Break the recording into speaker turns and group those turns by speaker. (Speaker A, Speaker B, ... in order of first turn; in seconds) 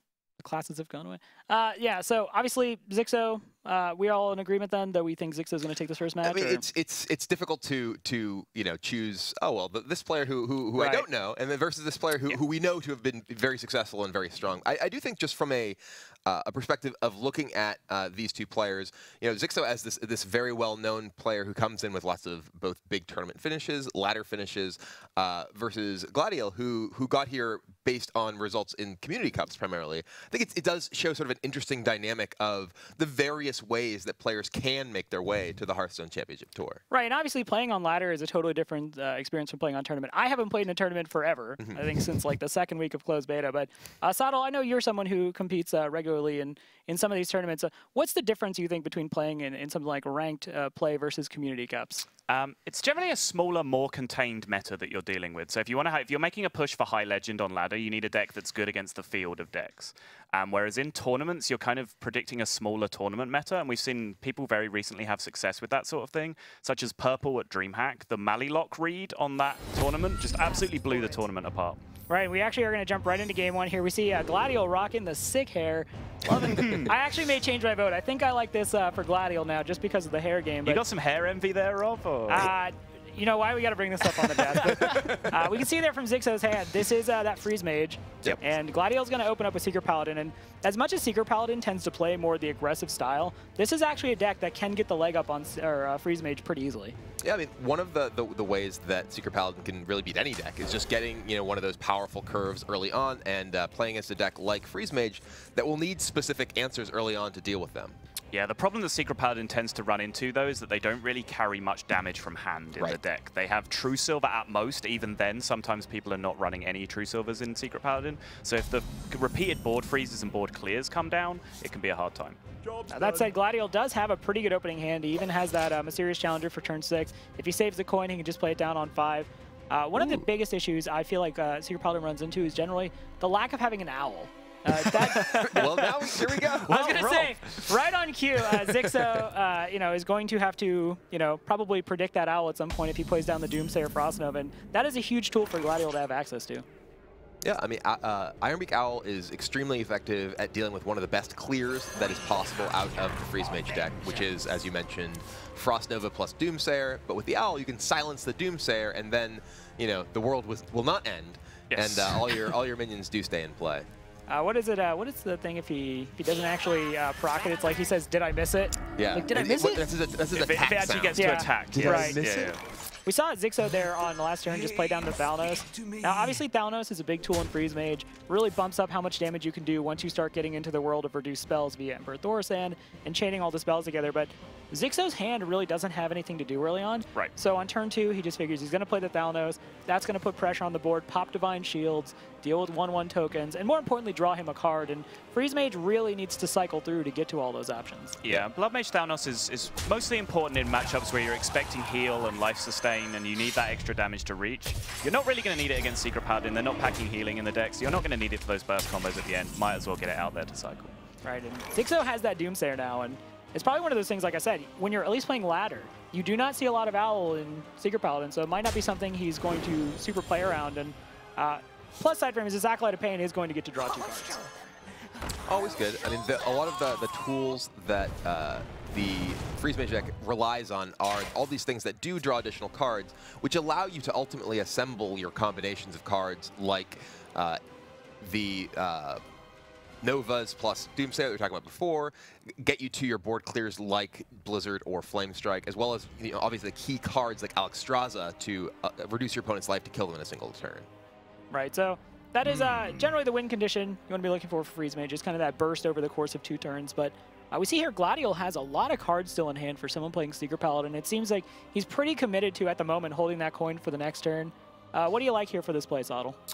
Speaker A: 0.4-6.6, 10.8-11.0, 36.9-52.0, 72.1-80.8, 82.3-97.0, 122.9-135.8, 136.7-146.6, 164.3-169.8, 171.1-172.2, 173.1-198.2, 211.2-224.4, 251.5-266.4
Speaker B: 6.2-36.8, 76.4-76.8, 84.6-85.4, 97.2-108.0, 130.0-130.2, 134.8-137.2, 147.4-163.9, 168.9-172.6, 225.4-237.6, 238.2-239.2, 240.0-250.9
Speaker C: 52.3-71.8, 76.3-76.9, 80.6-82.5, 108.3-122.4, 135.1-135.9, 136.5-137.3, 161.7-162.4, 170.3-172.6, 198.2-210.9